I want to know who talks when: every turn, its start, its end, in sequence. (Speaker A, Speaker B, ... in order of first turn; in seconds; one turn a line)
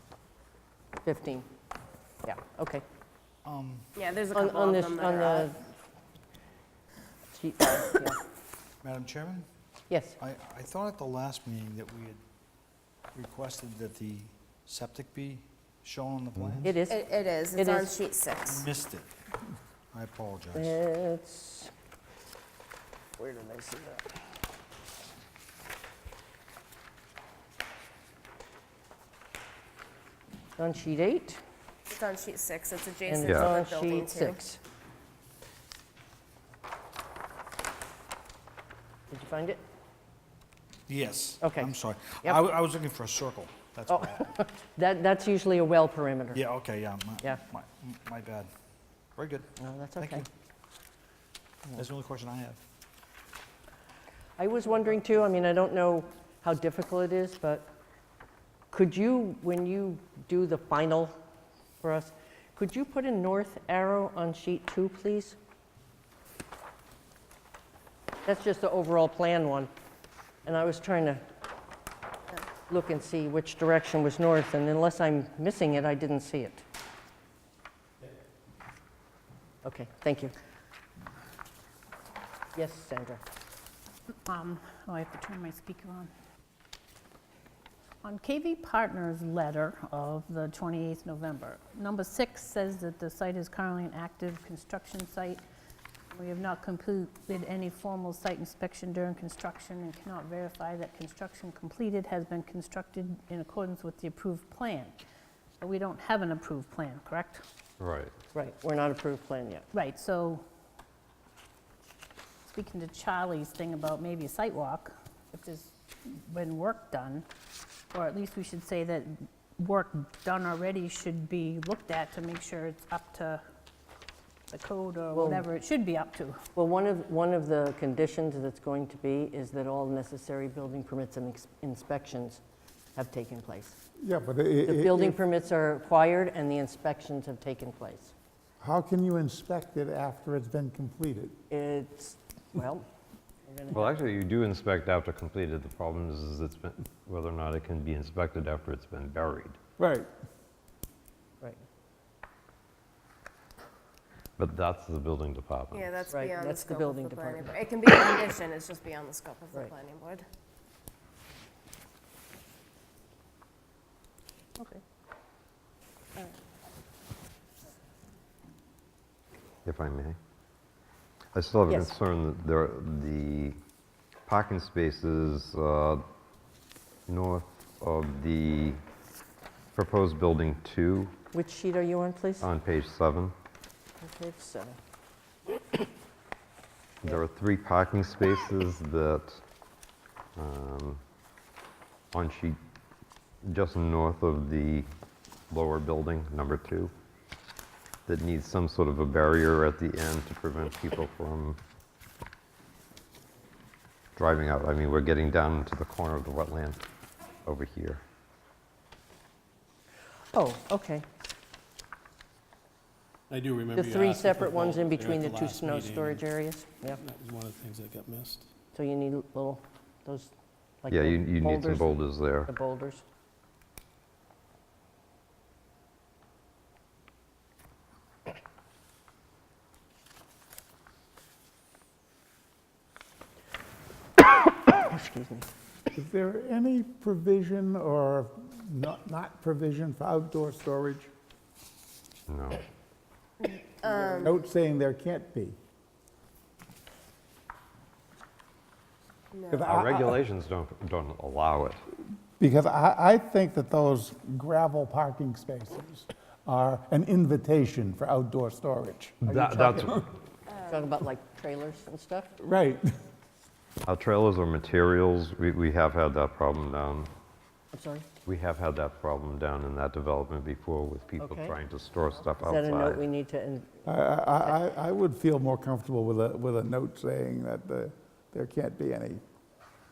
Speaker A: 1.0-1.5
Speaker A: 2.2-2.8
Speaker B: 3.4-3.9
Speaker C: 4.0-5.5
Speaker A: 4.3-5.6
Speaker A: 7.3-8.2
Speaker B: 8.8-9.4
Speaker A: 9.9-10.2
Speaker B: 10.2-12.2
Speaker B: 13.1-16.7
Speaker A: 16.6-17.0
Speaker C: 16.9-18.7
Speaker A: 17.6-17.9
Speaker B: 18.4-19.1
Speaker B: 19.9-20.8
Speaker A: 20.5-21.7
Speaker A: 23.2-24.1
Speaker A: 30.6-31.4
Speaker C: 31.9-34.4
Speaker A: 33.1-34.6
Speaker D: 33.2-33.5
Speaker A: 39.1-39.6
Speaker B: 40.9-44.4
Speaker A: 41.4-41.7
Speaker A: 43.9-46.4
Speaker B: 46.3-48.5
Speaker B: 49.1-49.5
Speaker A: 49.6-50.2
Speaker B: 50.0-50.3
Speaker B: 51.7-52.6
Speaker A: 54.4-57.7
Speaker A: 58.7-61.1
Speaker A: 61.8-65.4
Speaker A: 68.2-69.7
Speaker A: 70.4-71.2
Speaker A: 72.7-76.6
Speaker A: 79.6-80.3
Speaker A: 82.5-83.2
Speaker E: 84.2-86.1
Speaker E: 88.0-95.4
Speaker E: 96.1-105.0
Speaker E: 105.6-107.4
Speaker D: 107.8-108.1
Speaker A: 108.3-109.7
Speaker E: 109.7-110.4
Speaker E: 112.5-117.2
Speaker E: 117.9-123.4
Speaker E: 124.5-126.4
Speaker A: 125.1-125.5
Speaker A: 126.5-132.4
Speaker A: 132.9-133.8
Speaker F: 134.0-135.2
Speaker A: 134.6-138.1
Speaker F: 138.6-141.3
Speaker A: 141.5-142.8
Speaker A: 143.4-143.9
Speaker D: 143.7-149.6
Speaker F: 149.8-150.1
Speaker D: 154.4-156.1
Speaker C: 155.7-160.2
Speaker A: 156.1-157.6
Speaker D: 169.6-170.2
Speaker D: 171.3-173.6
Speaker D: 174.3-176.0
Speaker D: 177.1-178.8
Speaker D: 179.8-181.1
Speaker A: 181.3-182.5
Speaker D: 182.4-183.3
Speaker A: 184.0-184.8
Speaker D: 187.0-189.4
Speaker D: 190.4-191.0
Speaker D: 192.1-192.6
Speaker D: 193.4-194.9
Speaker D: 195.5-196.9
Speaker D: 198.1-201.6
Speaker D: 204.2-206.8
Speaker D: 207.4-208.0
Speaker A: 210.3-211.1
Speaker G: 213.3-216.3
Speaker A: 213.7-217.0
Speaker G: 216.9-218.5
Speaker A: 218.7-220.3
Speaker A: 220.8-223.0
Speaker D: 220.9-222.5
Speaker A: 234.6-235.5
Speaker F: 235.9-241.1
Speaker D: 242.3-242.6
Speaker C: 243.4-244.3
Speaker F: 244.2-245.6
Speaker C: 249.3-249.7
Speaker F: 249.5-250.2
Speaker D: 249.6-251.8
Speaker F: 252.4-260.1
Speaker D: 259.3-260.1
Speaker A: 260.7-262.3
Speaker F: 262.4-262.8
Speaker D: 263.9-267.1
Speaker A: 267.7-268.1
Speaker D: 268.2-273.1
Speaker A: 271.2-271.5
Speaker A: 272.4-273.7
Speaker F: 273.8-279.2